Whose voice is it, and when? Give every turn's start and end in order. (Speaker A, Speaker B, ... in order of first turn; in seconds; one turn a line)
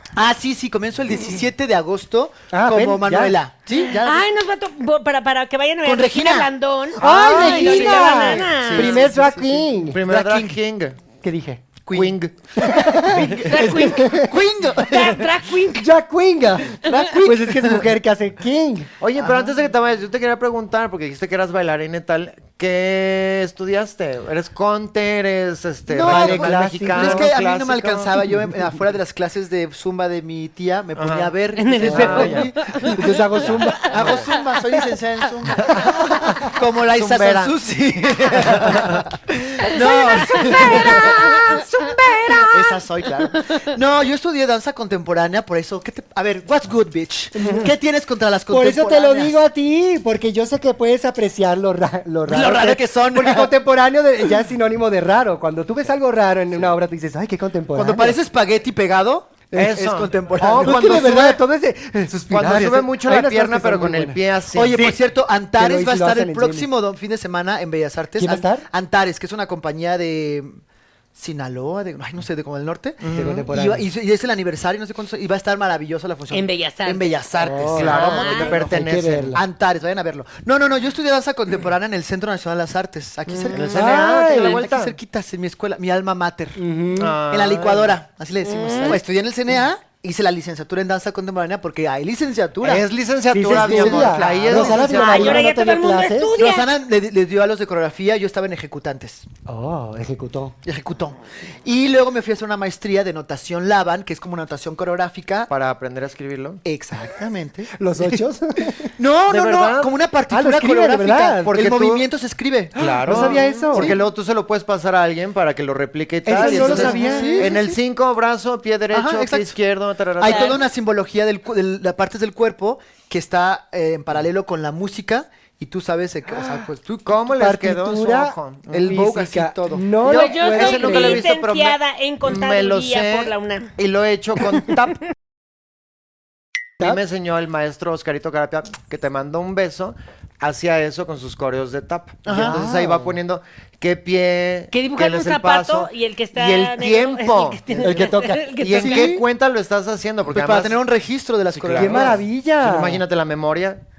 Speaker A: 0.2-4.2
Speaker B: 2.5-3.4
Speaker C: 4.0-9.1
Speaker A: 5.8-10.6
Speaker B: 7.0-10.0
Speaker D: 7.0-7.5
Speaker D: 9.9-11.0
Speaker B: 11.2-11.6
Speaker A: 11.9-15.4
Speaker D: 11.9-12.4
Speaker B: 12.6-14.3
Speaker D: 13.2-13.4
Speaker C: 13.4-14.1
Speaker C: 14.9-15.9
Speaker B: 15.7-18.9
Speaker A: 16.8-17.9
Speaker D: 19.0-28.2
Speaker A: 19.2-19.5
Speaker A: 25.9-33.3
Speaker B: 26.0-27.3
Speaker D: 31.0-32.8
Speaker C: 31.6-34.3
Speaker B: 31.8-32.4
Speaker B: 33.0-34.1
Speaker D: 33.8-34.3
Speaker A: 33.9-41.6
Speaker D: 35.6-37.6
Speaker D: 38.3-39.1
Speaker C: 39.6-42.8
Speaker A: 42.4-49.4
Speaker C: 43.4-43.7
Speaker B: 47.4-47.7
Speaker B: 48.5-58.2
Speaker A: 52.3-53.5
Speaker A: 57.7-61.4
Speaker D: 59.5-61.1
Speaker B: 60.6-64.2
Speaker D: 62.3-64.8
Speaker A: 64.5-70.6
Speaker B: 64.7-65.0
Speaker B: 65.5-66.7
Speaker B: 68.2-68.7
Speaker A: 71.1-78.6
Speaker D: 73.0-73.5
Speaker B: 73.1-73.9
Speaker C: 76.3-77.2
Speaker B: 77.4-79.4
Speaker D: 77.7-79.4
Speaker C: 77.8-78.6
Speaker A: 79.3-86.6
Speaker C: 83.3-84.0
Speaker D: 83.5-85.0
Speaker B: 83.8-84.6
Speaker B: 86.6-87.2
Speaker D: 87.0-88.0
Speaker A: 87.3-92.8
Speaker C: 88.4-89.0
Speaker D: 92.6-95.3
Speaker B: 93.3-96.3
Speaker A: 93.5-95.4
Speaker C: 94.7-96.7
Speaker A: 96.4-99.3
Speaker B: 99.5-100.6
Speaker A: 100.6-105.5
Speaker D: 105.5-106.6
Speaker A: 106.7-108.2
Speaker B: 107.8-108.9
Speaker A: 109.0-114.0
Speaker D: 109.3-109.9
Speaker B: 110.3-111.6
Speaker D: 111.5-112.1
Speaker D: 112.8-120.6
Speaker B: 112.8-114.0
Speaker B: 116.2-117.7
Speaker A: 116.4-117.8
Speaker A: 118.9-119.5
Speaker A: 120.2-127.2
Speaker C: 120.2-120.6
Speaker D: 127.0-129.0
Speaker B: 127.3-131.3
Speaker A: 128.7-129.9
Speaker C: 130.0-133.7
Speaker D: 130.4-135.0
Speaker D: 136.8-150.8
Speaker A: 142.2-142.9
Speaker B: 142.3-143.2
Speaker C: 144.7-149.1
Speaker B: 147.8-148.6
Speaker A: 148.8-149.2
Speaker A: 150.3-152.2
Speaker D: 151.5-153.8
Speaker B: 151.8-153.0